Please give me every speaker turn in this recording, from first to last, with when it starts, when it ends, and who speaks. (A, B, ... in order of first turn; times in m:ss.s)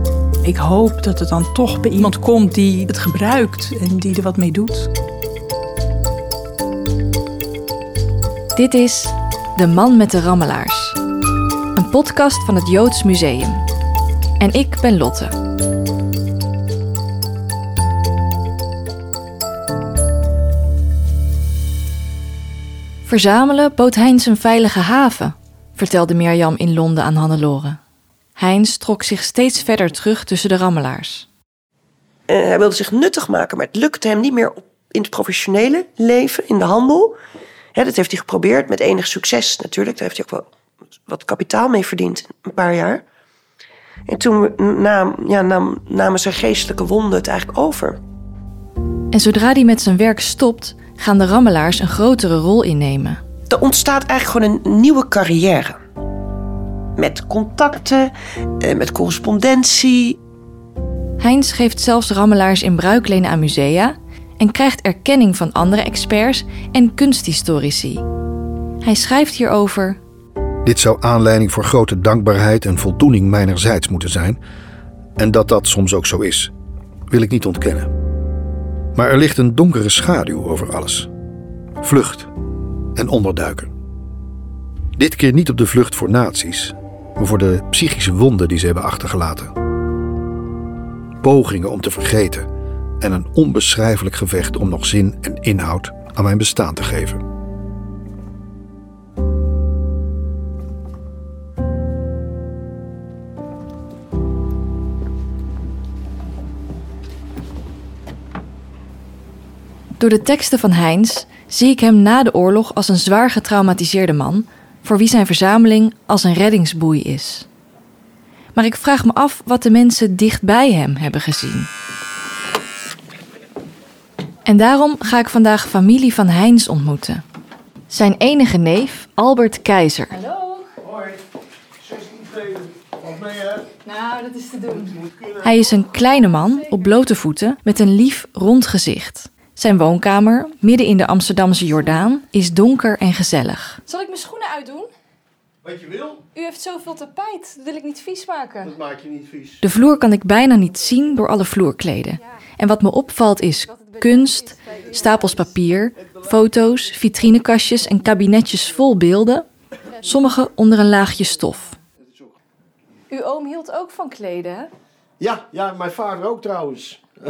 0:00.4-0:04.9 A
0:08.6-0:11.0 B
0:11.8-0:13.6 B
0:14.4-0:15.4 B
0:23.0-0:27.8 B
0:28.4-0:31.3 B
0:32.3-0:37.2 C
0:37.8-0:40.5 C
0:41.1-0:43.0 C
0:44.1-0:48.0 C
0:49.1-0:53.2 B
0:53.5-0:55.8 C
0:57.0-1:00.2 C
1:01.2-1:08.0 B
1:08.8-1:10.0 B
1:10.6-1:14.4 D
1:15.2-1:16.5 D
1:17.1-1:17.9 D
1:19.0-1:21.1 D
1:21.8-1:22.3 D
1:23.0-1:23.7 D
1:25.0-1:29.5 D
1:31.2-1:32.5 D
1:33.0-1:37.2 D
1:50.0-1:57.5 B
1:58.6-2:01.7 B
2:04.5-2:07.2 B
2:07.9-2:10.6 B
2:10.8-2:11.2 E
2:11.8-2:13.8 E
2:13.9-2:14.6 B
2:14.7-2:15.4 E
2:15.4-2:24.9 B
2:25.6-2:26.2 E
2:26.4-2:28.7 B
2:28.6-2:29.6 E
2:29.6-2:41.8 B
2:43.1-2:44.7 B
2:45.2-2:47.0 E